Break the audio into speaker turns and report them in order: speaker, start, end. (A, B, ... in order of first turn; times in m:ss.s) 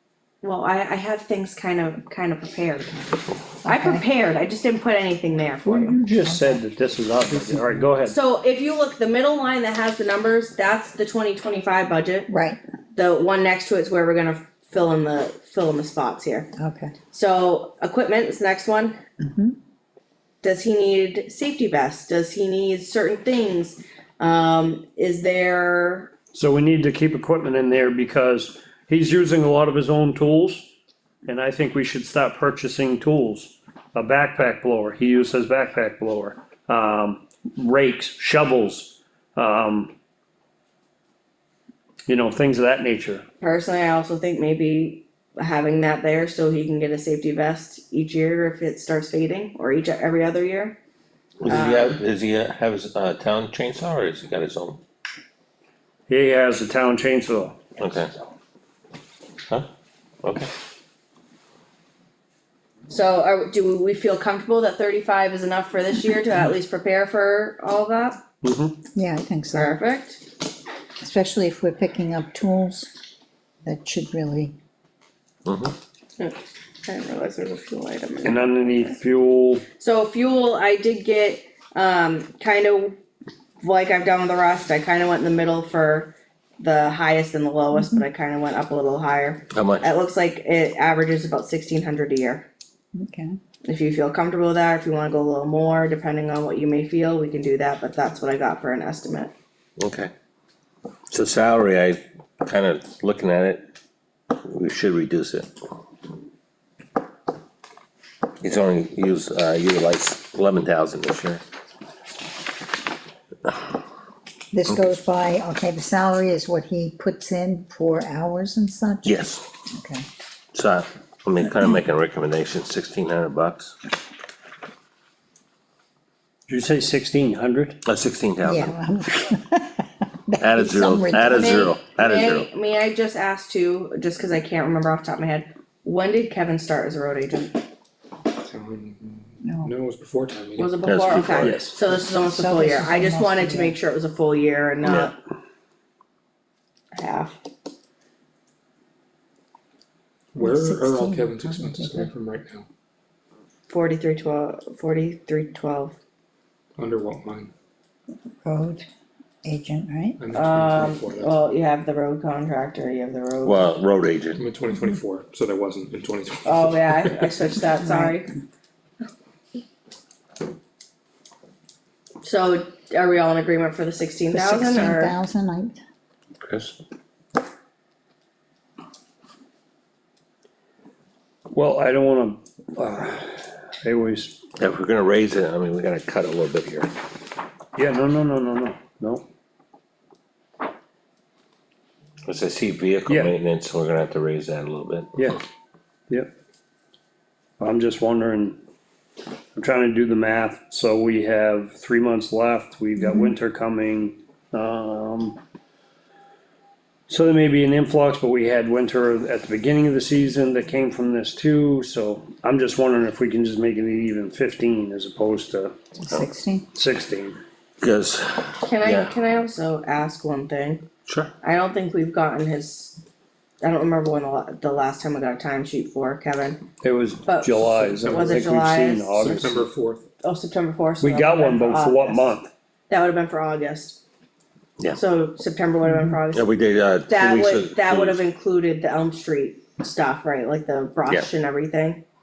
0:00.4-0:06.0 A
0:03.6-0:04.0 B
0:05.6-0:06.6 B
0:06.0-0:08.2 C
0:08.0-0:12.3 A
0:12.3-0:12.6 B
0:12.9-0:16.5 A
0:16.6-0:16.9 B
0:17.1-0:19.0 A
0:19.2-0:19.6 B
0:20.4-0:26.1 A
0:26.3-0:30.7 C
0:31.2-0:39.9 C
0:42.1-0:43.2 C
0:43.4-0:50.8 A
0:51.4-0:54.8 D
0:51.4-0:52.0 A
0:56.1-0:57.6 C
0:57.8-0:58.1 D
1:00.2-1:00.5 D
1:02.9-1:08.2 A
1:08.4-1:08.8 C
1:08.9-1:09.8 B
1:09.5-1:10.2 A
1:11.0-1:12.9 B
1:13.6-1:14.5 B
1:15.4-1:15.7 D
1:16.2-1:19.0 A
1:18.2-1:19.6 C
1:19.8-1:23.0 A
1:23.6-1:32.5 A
1:27.7-1:28.0 B
1:29.5-1:29.9 D
1:32.9-1:33.4 B
1:33.6-1:39.3 A
1:39.8-1:40.1 D
1:41.1-1:43.6 D
1:44.4-1:45.5 D
1:48.4-1:51.4 D
1:54.5-2:00.0 B
1:59.0-1:59.4 D
2:00.5-2:03.8 D
2:06.5-2:07.8 C
2:07.8-2:08.8 D
2:08.4-2:11.8 B
2:10.4-2:12.5 D
2:11.3-2:17.6 A
2:18.4-2:20.8 E
2:19.4-2:19.7 B
2:20.6-2:25.2 A
2:20.8-2:21.6 D
2:21.4-2:21.7 C
2:22.1-2:23.8 B
2:24.8-2:25.1 D
2:26.9-2:27.4 A
2:30.3-2:32.6 E
2:30.4-2:32.1 B
2:33.7-2:36.0 A
2:36.8-2:37.5 E
2:38.4-2:38.8 B
2:39.4-2:40.2 B
2:40.2-2:41.3 E
2:40.3-2:43.8 A
2:43.4-2:44.4 D
2:44.3-2:47.1 E
2:46.4-2:48.3 A
2:47.8-2:48.2 B
2:52.2-2:55.1 A
2:54.3-2:55.8 B
2:56.4-2:56.7 D
3:01.5-3:04.4 C
3:04.6-3:06.9 D
3:07.8-3:09.2 C
3:12.2-3:15.3 D
3:13.1-3:13.3 C
3:15.2-3:15.4 C
3:17.6-3:18.6 C
3:19.5-3:25.4 C
3:23.0-3:23.3 B
3:27.1-3:35.7 C
3:36.0-3:36.6 B
3:36.7-3:37.4 C
3:37.8-3:39.1 D
3:38.6-3:40.8 A
3:41.1-3:41.3 D
3:41.4-3:43.0 A
3:43.6-3:46.6 A
3:46.8-3:49.6 C
3:47.2-3:49.2 A
3:47.8-3:48.6 E
3:49.1-3:50.0 E
3:50.2-3:52.3 A
3:51.0-3:52.5 C
3:52.9-3:54.0 A
3:54.9-3:56.5 A
3:55.8-3:56.2 B
3:56.3-3:58.2 D
3:57.1-4:02.0 A